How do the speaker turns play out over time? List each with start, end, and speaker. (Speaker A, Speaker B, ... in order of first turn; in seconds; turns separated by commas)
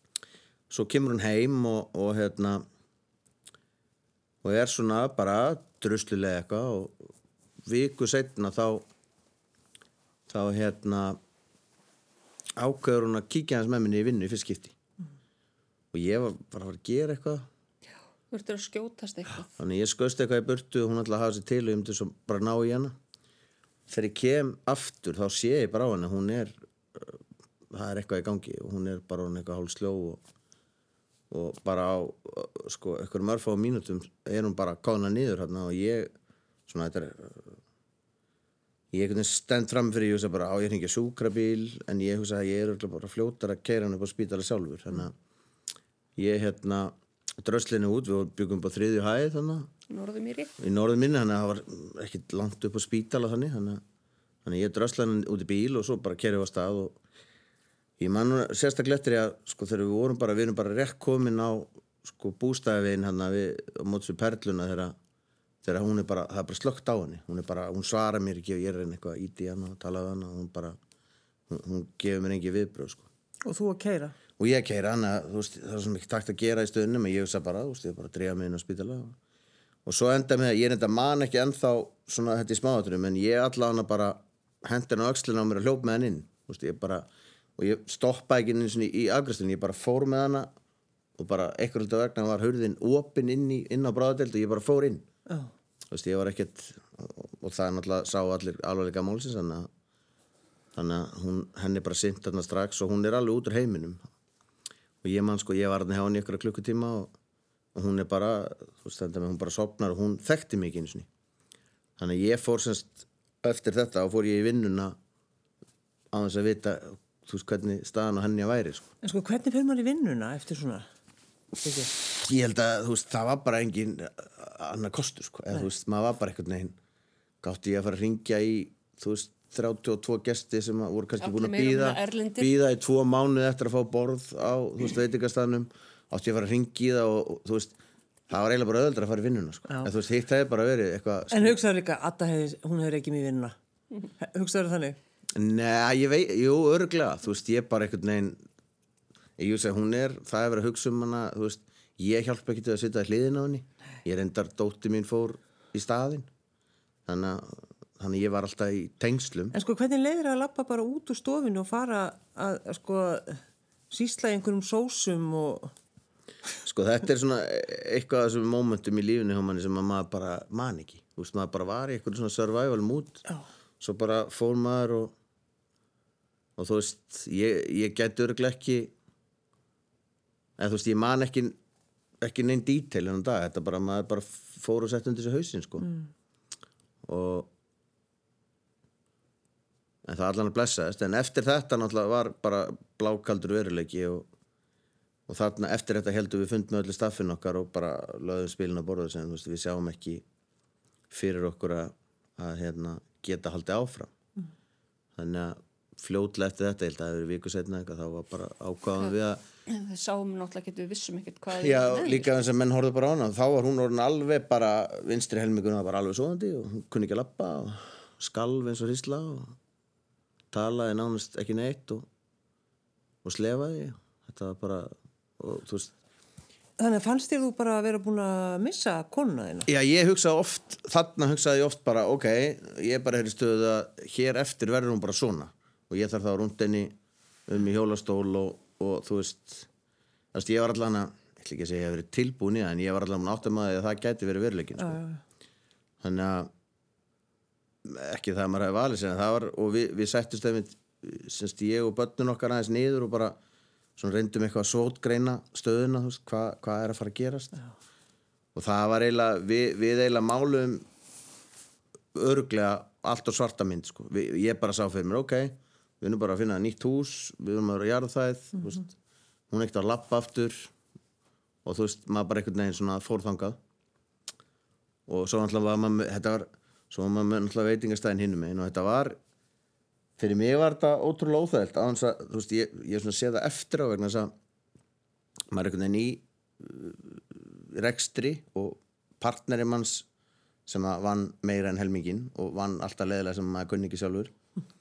Speaker A: 0.7-2.6, Speaker A: 4.4-7.1, Speaker A: 7.7-8.8, Speaker A: 10.3-11.2, Speaker A: 12.6-14.8, Speaker A: 15.9-17.5, Speaker B: 18.3-19.5, Speaker A: 19.6-22.9, Speaker A: 23.9-27.2, Speaker A: 27.7-30.2, Speaker A: 31.3-36.1, Speaker A: 36.7-37.6, Speaker A: 38.9-45.1, Speaker A: 46.2-49.7, Speaker B: 49.9-50.5, Speaker A: 50.6-53.8, Speaker A: 54.4-57.0, Speaker A: 58.0-64.9, Speaker A: 65.6-70.8, Speaker A: 71.5-73.1, Speaker C: 73.4-74.2, Speaker A: 74.4-79.2, Speaker A: 79.8-90.5, Speaker A: 91.2-95.1, Speaker A: 95.9-99.7, Speaker A: 100.7-104.0, Speaker A: 105.0-107.1, Speaker A: 107.7-111.1, Speaker A: 112.0-115.0, Speaker A: 116.1-118.9, Speaker C: 119.0-120.9, Speaker C: 121.6-121.9, Speaker A: 122.0-126.8, Speaker A: 127.4-137.7, Speaker B: 131.2-132.5, Speaker A: 138.3-141.6, Speaker C: 139.7-139.9, Speaker C: 141.3-143.5, Speaker C: 144.2-145.0, Speaker A: 145.3-148.4, Speaker A: 149.4-156.3, Speaker A: 157.1-159.6, Speaker C: 159.5-165.7, Speaker A: 166.6-173.2, Speaker A: 173.8-175.1, Speaker A: 176.6-178.9, Speaker A: 180.6-181.6, Speaker A: 182.2-185.9, Speaker C: 185.8-186.1, Speaker A: 187.0-187.5, Speaker A: 190.0-194.3, Speaker A: 195.3-200.2, Speaker A: 201.1-204.1, Speaker A: 205.2-209.4, Speaker B: 209.7-212.3, Speaker A: 211.5-219.6, Speaker A: 220.5-222.1, Speaker A: 223.2-225.9, Speaker C: 226.8-229.7, Speaker A: 229.7-236.9, Speaker A: 237.5-239.7, Speaker A: 240.3-245.0, Speaker C: 244.8-245.2, Speaker A: 246.0-246.5, Speaker A: 247.8-253.4, Speaker A: 254.0-257.6, Speaker A: 258.5-260.8, Speaker A: 262.1-268.9, Speaker A: 269.5-270.7, Speaker A: 271.6-273.6, Speaker A: 275.1-279.2, Speaker A: 280.2-284.3, Speaker A: 285.5-290.1, Speaker A: 290.6-294.3